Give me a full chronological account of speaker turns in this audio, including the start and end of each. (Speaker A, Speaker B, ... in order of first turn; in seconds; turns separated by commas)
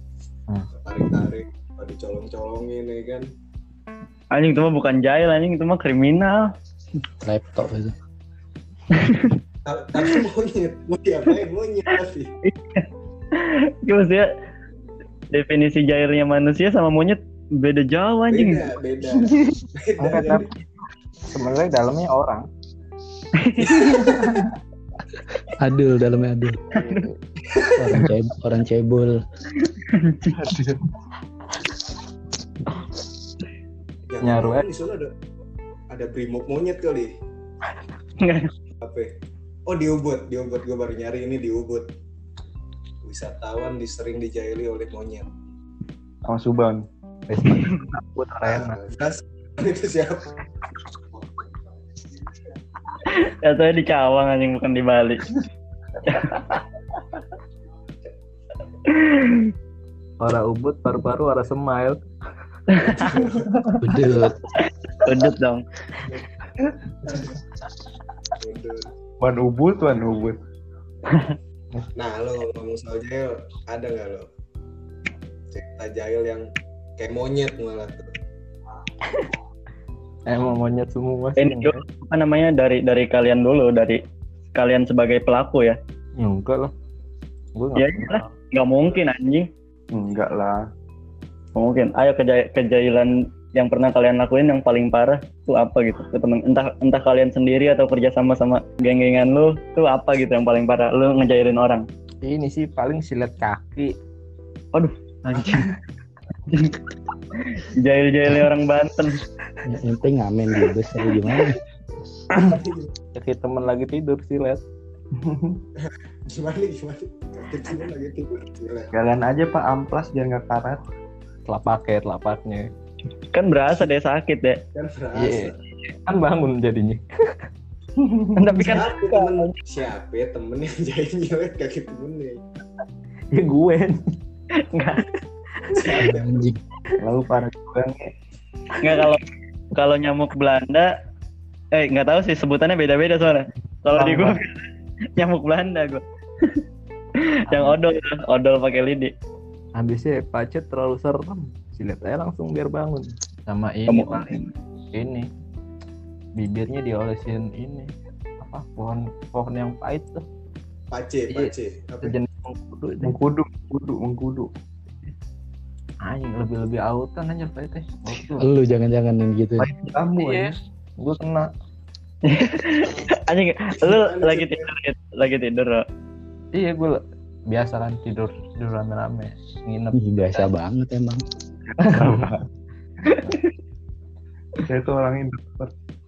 Speaker A: 0.7-3.3, Speaker B: 4.3-6.5, Speaker C: 7.2-7.9, Speaker B: 8.9-9.3, Speaker A: 9.7-12.3, Speaker B: 12.4-14.3, Speaker B: 15.3-18.7, Speaker A: 18.3-20.5, Speaker D: 20.0-20.5, Speaker D: 21.3-22.5, Speaker B: 23.4-24.4, Speaker A: 23.6-24.5, Speaker C: 25.6-26.6, Speaker B: 26.7-27.1, Speaker E: 26.7-27.1, Speaker A: 27.5-28.0, Speaker C: 27.8-29.2, Speaker B: 29.6-30.4, Speaker E: 30.3-30.8, Speaker A: 34.1-35.1, Speaker D: 34.2-34.7, Speaker A: 35.9-37.1, Speaker B: 38.2-38.5, Speaker A: 38.8-39.1, Speaker A: 39.6-41.9, Speaker A: 43.0-45.3, Speaker E: 46.2-46.8, Speaker D: 47.3-48.8, Speaker B: 47.6-47.8, Speaker A: 48.4-50.4, Speaker B: 53.0-55.3, Speaker B: 56.1-56.5, Speaker B: 58.9-59.5, Speaker D: 60.2-62.0, Speaker B: 62.7-63.2, Speaker A: 63.0-63.5, Speaker C: 63.8-64.4, Speaker B: 64.9-65.6, Speaker A: 68.4-68.9, Speaker E: 69.2-70.4, Speaker B: 71.1-71.3, Speaker A: 72.0-74.2, Speaker A: 75.5-76.5, Speaker A: 77.0-78.0, Speaker D: 80.3-81.8, Speaker B: 81.4-84.0, Speaker B: 84.5-85.8, Speaker D: 86.2-86.7, Speaker D: 87.5-88.3, Speaker B: 87.8-89.5, Speaker E: 89.9-90.6, Speaker B: 91.6-101.8, Speaker D: 102.2-103.9, Speaker B: 104.7-105.7, Speaker E: 105.4-105.7, Speaker B: 107.5-109.2, Speaker C: 109.7-111.6, Speaker A: 112.4-112.9, Speaker D: 113.1-114.6, Speaker E: 115.2-115.6, Speaker A: 115.8-118.9, Speaker E: 118.9-120.8, Speaker D: 121.5-122.7, Speaker B: 123.3-124.6, Speaker A: 124.7-125.6, Speaker D: 125.1-127.0, Speaker E: 128.0-128.6, Speaker B: 128.3-129.6, Speaker A: 128.6-132.4, Speaker D: 133.3-134.1, Speaker B: 134.6-135.0, Speaker D: 135.7-136.1, Speaker A: 135.7-136.5, Speaker C: 136.0-136.6, Speaker E: 137.0-138.1, Speaker B: 138.8-139.2, Speaker B: 139.7-140.9, Speaker B: 141.7-144.6, Speaker D: 143.9-144.4, Speaker B: 145.2-146.0, Speaker B: 147.2-149.1, Speaker D: 147.5-147.8, Speaker D: 149.8-154.3, Speaker B: 153.9-154.5, Speaker D: 154.9-155.3, Speaker D: 156.3-160.2, Speaker A: 160.9-162.2, Speaker D: 161.3-163.1, Speaker E: 163.0-164.5, Speaker D: 166.0-168.5, Speaker C: 168.4-169.7, Speaker E: 169.6-170.6, Speaker D: 170.2-171.5, Speaker B: 172.2-175.8, Speaker A: 173.8-174.7, Speaker D: 176.5-180.5, Speaker C: 179.9-181.2, Speaker E: 181.8-182.4, Speaker D: 181.8-182.3, Speaker D: 183.1-183.3, Speaker E: 184.7-185.7